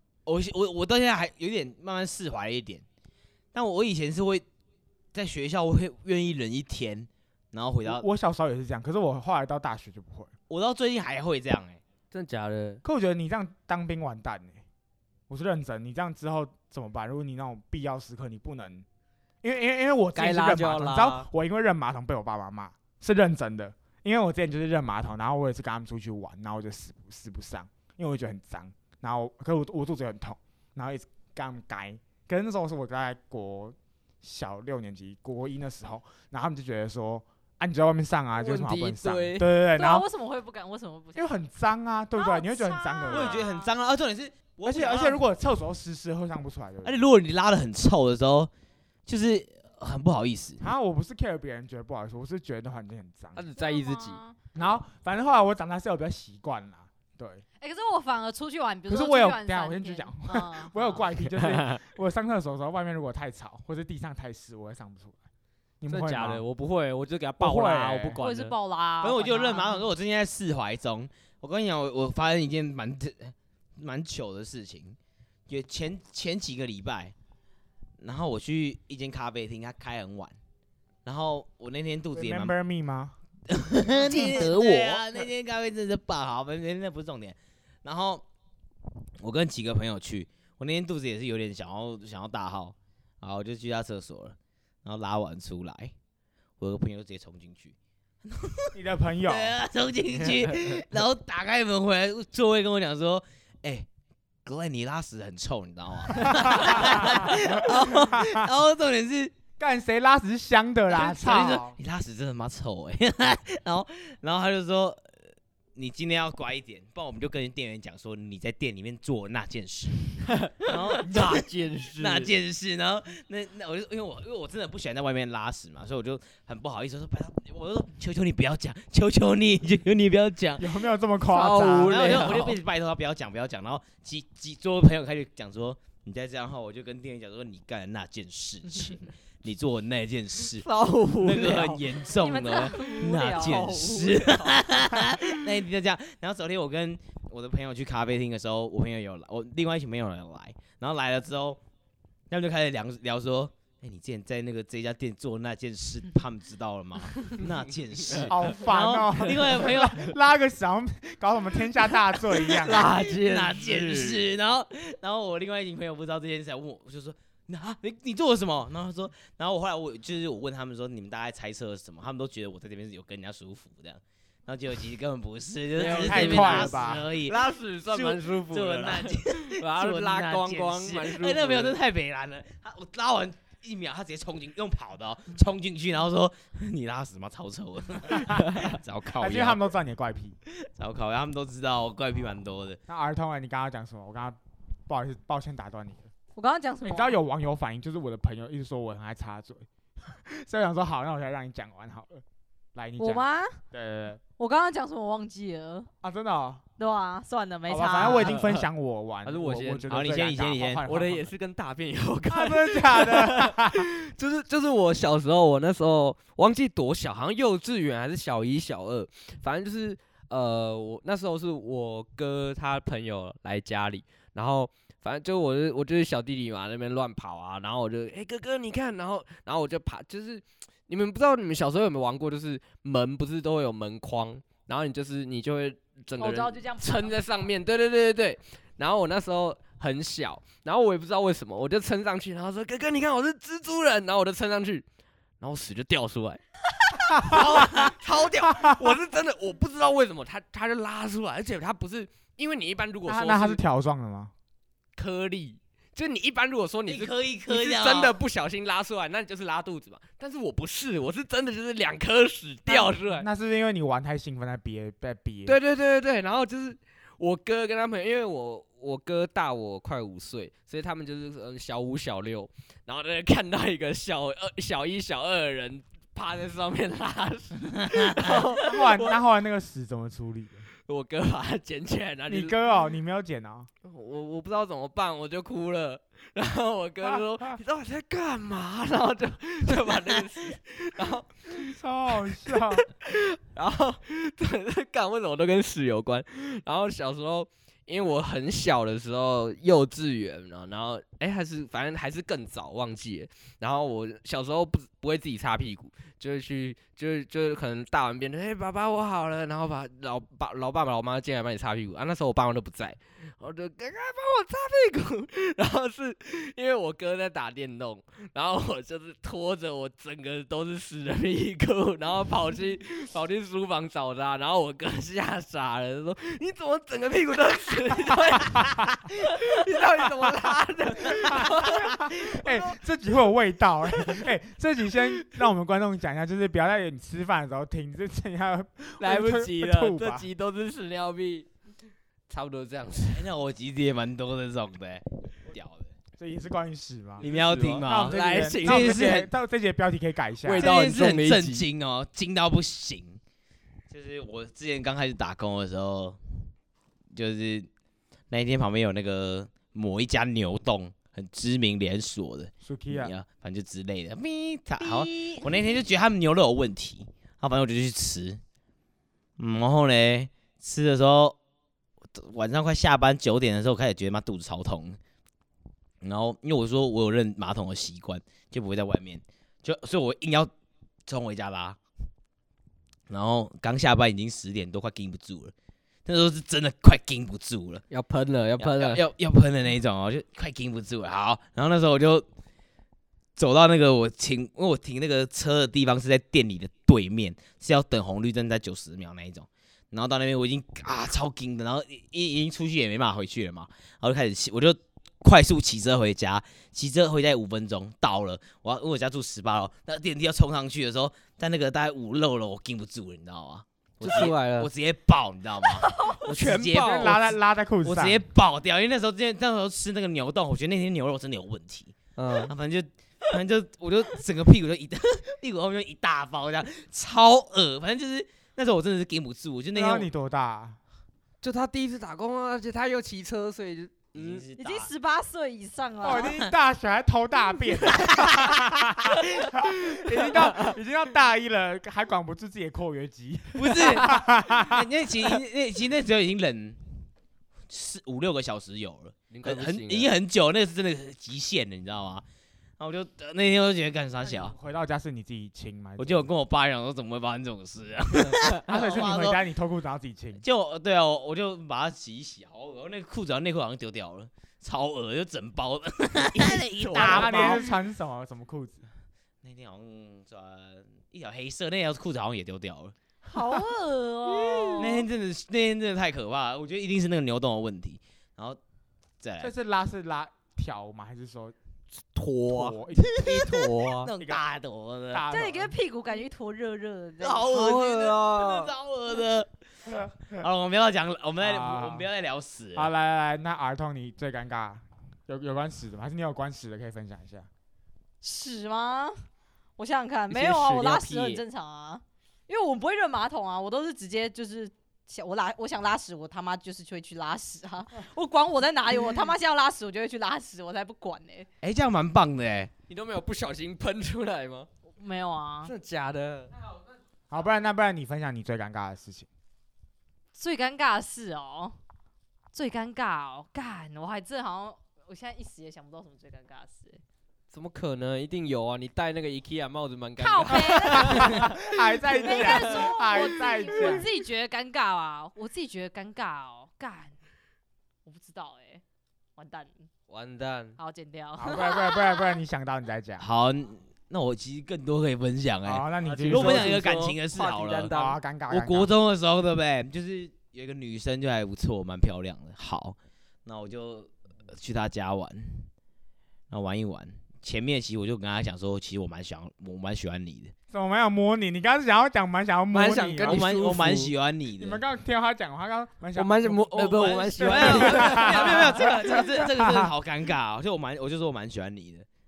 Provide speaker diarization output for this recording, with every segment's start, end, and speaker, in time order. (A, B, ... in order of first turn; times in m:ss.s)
0:00.3-0:02.8 A
0:03.5-0:04.4 A
0:05.1-0:08.0 A
0:07.8-0:10.3 B
0:10.5-0:11.8 A
0:12.1-0:12.8 C
0:12.8-0:14.6 B
0:15.3-0:18.9 B
0:19.4-0:40.1 B
0:20.2-0:21.3 C
0:38.4-0:39.5 C
0:39.7-0:41.3 D
0:41.2-0:43.4 B
0:42.1-0:43.7 D
0:43.1-0:45.2 A
0:44.6-0:47.0 B
0:46.8-0:48.5 A
0:49.1-0:50.6 A
0:50.6-0:53.4 B
0:53.4-0:54.2 C
0:53.6-0:54.4 D
0:54.6-0:57.4 B
0:57.6-1:01.0 D
0:58.9-1:05.2 B
1:01.4-1:01.8 C
1:05.8-1:06.4 B
1:05.9-1:08.6 C
1:07.4-1:08.2 B
1:08.2-1:09.8 D
1:09.0-1:15.0 A
1:15.5-1:17.1 A
1:18.0-1:20.4 A
1:21.0-1:22.5 A
1:22.1-1:23.2 B
1:23.5-1:28.2 A
1:24.1-1:24.5 B
1:24.1-1:25.0 C
1:29.2-1:35.9 A
1:36.6-1:43.9 A
1:38.7-1:39.6 B
1:44.5-1:49.4 A
1:46.2-1:48.5 B
1:49.6-1:51.8 B
1:50.9-1:55.2 A
1:55.8-2:10.8 A
2:00.4-2:02.3 C
2:10.6-2:12.2 B
2:11.2-2:12.6 C
2:11.8-2:20.7 A
2:20.6-2:21.8 C
2:21.2-2:31.6 A
2:22.1-2:23.7 D
2:22.9-2:25.4 C
2:32.3-2:40.1 A
2:38.0-2:38.3 C
2:38.3-2:42.9 B
2:42.4-2:44.2 C
2:42.7-3:09.6 A
2:55.8-3:01.8 C
2:55.8-2:57.1 B
3:09.2-3:10.4 B
3:10.7-3:12.8 A
3:12.9-3:16.1 B
3:16.4-3:17.2 D
3:16.8-3:22.2 B
3:22.8-3:24.2 B
3:23.0-3:23.6 D
3:24.4-3:25.9 D
3:26.0-3:26.6 B
3:26.8-3:28.4 D
3:27.7-3:31.3 B
3:28.0-3:28.7 C
3:29.2-3:30.0 C
3:29.9-3:30.8 A
3:30.8-4:04.8 C
3:32.3-3:33.9 B
3:56.2-3:57.2 D
4:05.4-4:13.6 C
4:07.2-4:07.5 B
4:07.3-4:08.0 A
4:08.6-4:08.9 B
4:13.1-4:14.3 B
4:15.0-4:23.3 C
4:16.9-4:18.2 A
4:22.7-4:25.6 B
4:25.5-4:39.2 C
4:38.5-4:40.7 B
4:40.9-4:42.5 C
4:42.3-4:43.7 B
4:43.8-4:51.7 C
4:51.5-4:52.9 B
4:52.8-5:32.7 C
5:31.0-5:40.3 B
5:39.0-5:41.5 C
5:42.3-5:43.3 C
5:43.1-5:46.0 A
5:46.2-5:47.3 B
5:47.2-5:49.2 C
5:47.2-5:49.3 A
5:47.8-5:50.7 B
5:50.4-5:51.6 C
5:50.6-5:53.2 A
5:53.9-5:56.2 A
5:57.1-5:57.7 A
5:58.3-6:08.4 A
6:02.6-6:03.1 B
6:05.2-6:05.4 D
6:09.4-6:11.4 A
6:12.1-6:15.0 A
6:16.0-6:20.5 A
6:21.1-6:21.8 A
6:23.1-6:25.5 A
6:26.1-6:27.8 A
6:27.9-6:29.0 C
6:28.6-6:32.3 A
6:33.4-6:57.3 A
6:54.0-6:54.7 C
6:55.8-6:56.2 D
6:56.2-6:57.2 C
6:56.8-6:58.2 B
6:57.8-7:10.1 A
7:02.2-7:02.5 C
7:09.7-7:10.8 B
7:11.4-7:14.4 C
7:14.1-7:14.9 A
7:14.6-7:16.4 D
7:16.0-7:24.9 B
7:16.2-7:16.5 A
7:17.9-7:18.4 A
7:20.2-7:20.8 C
7:23.6-7:27.0 A
7:27.7-7:32.2 A
7:29.3-7:30.1 C
7:32.8-7:34.5 A
7:34.2-7:36.3 B
7:36.0-7:39.4 A
7:38.3-7:38.6 C
7:38.6-7:40.4 B
7:40.4-7:47.7 A
7:46.3-7:47.6 C
7:46.9-7:48.8 B
7:49.4-7:53.0 A
7:53.3-7:55.0 D
7:54.3-7:55.0 C
7:54.8-7:58.6 A
7:59.2-7:59.5 A
7:59.4-8:01.6 B
8:02.1-8:04.1 C
8:02.5-8:03.2 B
8:03.4-8:05.3 A
8:05.1-8:05.7 B
8:05.3-8:07.5 D
8:07.2-8:12.9 A
8:07.4-8:08.7 C
8:11.4-8:12.1 B
8:12.8-8:17.5 B
8:18.2-8:19.2 D
8:19.8-8:31.5 D
8:20.3-8:21.4 C
8:31.6-8:32.7 A
8:32.9-8:34.7 C
8:35.0-8:35.7 D
8:35.6-8:36.6 C
8:37.3-8:39.3 B
8:40.3-8:41.8 D
8:42.5-8:47.0 D
8:47.5-8:54.0 C
8:50.2-8:51.5 D
8:50.9-8:54.1 B
8:52.2-8:57.1 D
8:58.0-8:58.8 D
8:59.4-8:59.9 D
9:00.1-9:00.8 C
9:00.8-9:02.4 D
9:01.4-9:03.3 B
9:03.2-9:07.9 A
9:05.6-9:06.8 B
9:06.0-9:08.2 C
9:07.9-9:08.9 B
9:08.5-9:15.7 A
9:16.5-9:20.5 A
9:20.7-9:23.5 B
9:22.7-9:24.1 C
9:23.2-9:24.8 A
9:24.6-9:29.9 B
9:26.2-9:29.1 C
9:26.7-9:32.1 A